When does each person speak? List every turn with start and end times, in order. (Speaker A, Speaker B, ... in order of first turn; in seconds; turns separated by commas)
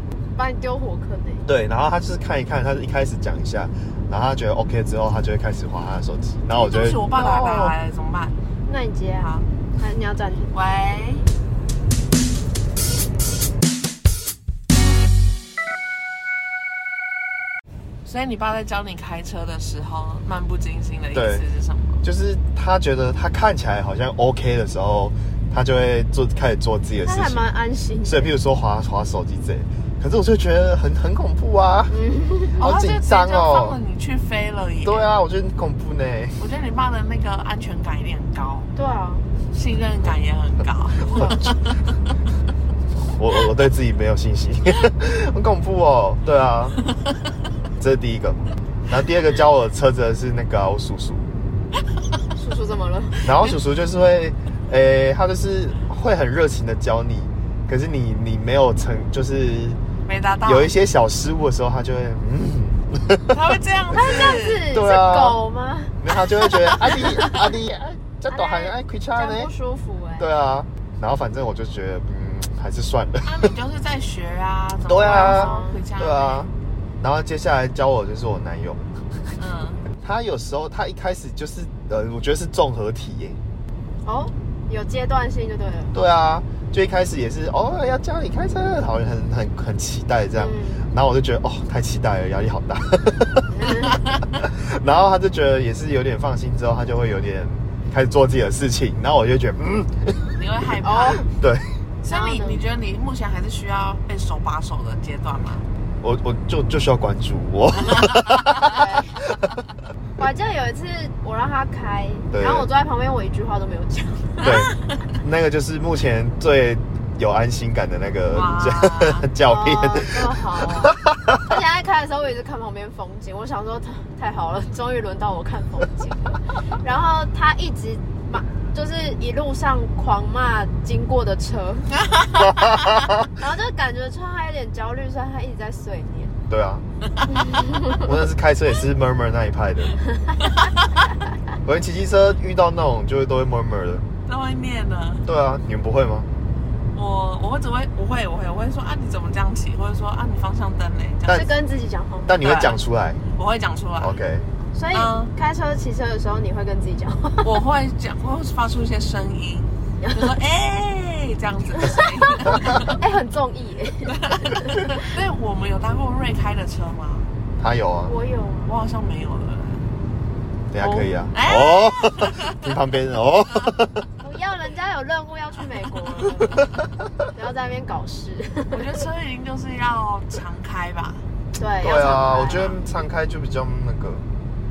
Speaker A: 0.3-1.5, Speaker B: 1.4-7.7, Speaker C: 6.5-8.3, Speaker A: 8.7-10.5, Speaker C: 9.2-9.4, Speaker C: 10.5-11.3, Speaker C: 18.0-22.0, Speaker B: 21.1-21.4, Speaker B: 22.0-27.4, Speaker A: 27.0-28.3, Speaker B: 28.0-31.9, Speaker A: 31.9-32.6, Speaker C: 32.6-35.1, Speaker B: 32.6-33.8, Speaker B: 34.8-36.4, Speaker C: 36.4-38.7, Speaker A: 38.8-39.3, Speaker C: 39.5-41.7, Speaker A: 41.1-41.4, Speaker B: 41.1-41.5, Speaker B: 43.0-46.8, Speaker B: 47.8-51.3, Speaker A: 52.4-53.2, Speaker B: 53.2-59.8, Speaker C: 60.0-60.7, Speaker B: 60.4-63.4, Speaker C: 63.3-64.6, Speaker B: 63.9-65.4, Speaker A: 63.9-67.3, Speaker B: 66.0-69.5, Speaker A: 68.3-70.3, Speaker B: 70.2-73.5, Speaker C: 73.2-76.5, Speaker B: 74.8-78.9, Speaker A: 75.0-75.8, Speaker C: 79.4-79.8, Speaker B: 80.0-83.4, Speaker A: 84.0-85.9, Speaker B: 85.9-100.3, Speaker A: 90.3-90.8, Speaker A: 93.5-94.0, Speaker C: 100.3-101.2, Speaker A: 100.8-101.2, Speaker B: 101.3-101.7, Speaker C: 102.0-105.6, Speaker A: 102.1-102.6, Speaker B: 106.0-108.8, Speaker A: 108.6-109.2, Speaker A: 110.2-114.5, Speaker B: 112.3-112.7, Speaker B: 114.4-120.2, Speaker C: 118.3-119.3, Speaker A: 119.5-131.9, Speaker B: 120.9-121.5, Speaker C: 132.1-132.4, Speaker B: 132.4-133.1, Speaker A: 133.4-136.3, Speaker B: 136.5-136.8, Speaker A: 137.3-138.0, Speaker B: 138.0-140.0, Speaker C: 140.4-140.7, Speaker B: 141.6-144.1, Speaker C: 144.2-145.3, Speaker B: 145.2-146.3, Speaker C: 146.9-151.4, Speaker A: 151.3-152.3, Speaker B: 152.3-153.2, Speaker C: 152.4-152.8, Speaker C: 153.3-154.2, Speaker B: 154.0-154.4, Speaker A: 154.4-157.5, Speaker C: 154.9-155.3, Speaker C: 157.4-162.9, Speaker A: 160.0-160.3, Speaker A: 162.8-164.8, Speaker C: 164.1-167.3, Speaker B: 167.6-168.1, Speaker A: 168.1-168.7, Speaker C: 168.7-169.8, Speaker B: 170.7-174.0, Speaker C: 170.8-172.6, Speaker A: 174.2-176.6, Speaker A: 177.3-178.8, Speaker C: 178.7-181.2, Speaker A: 181.6-182.7, Speaker B: 181.8-184.2, Speaker C: 182.4-182.8